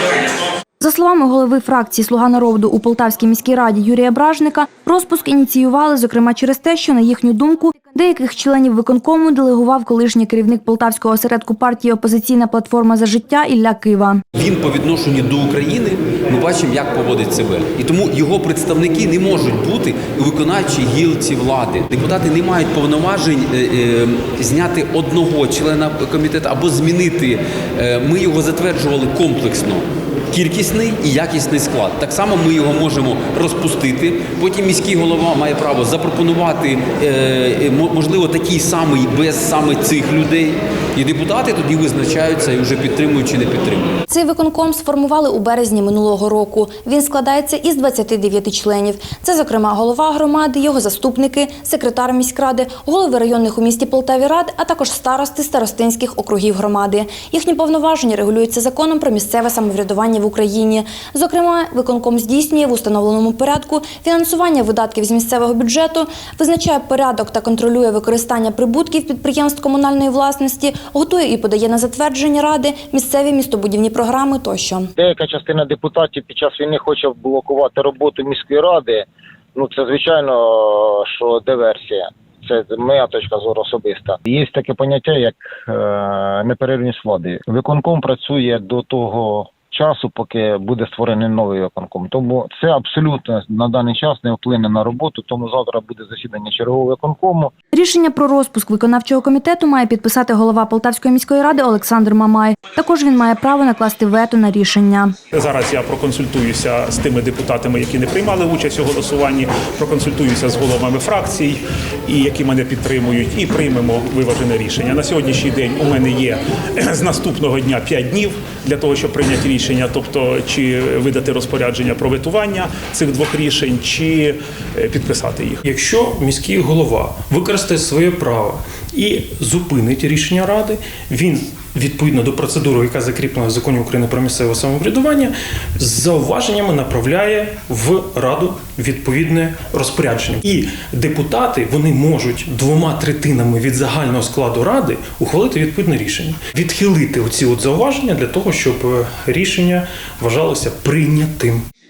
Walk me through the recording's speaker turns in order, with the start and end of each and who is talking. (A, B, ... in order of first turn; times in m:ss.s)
0:00.8-0:14.2 A
0:14.4-0:43.9 B
0:44.1-1:14.9 A
1:15.0-1:37.5 C
1:37.7-1:45.2 A
1:45.3-2:05.7 D
2:05.7-2:31.7 E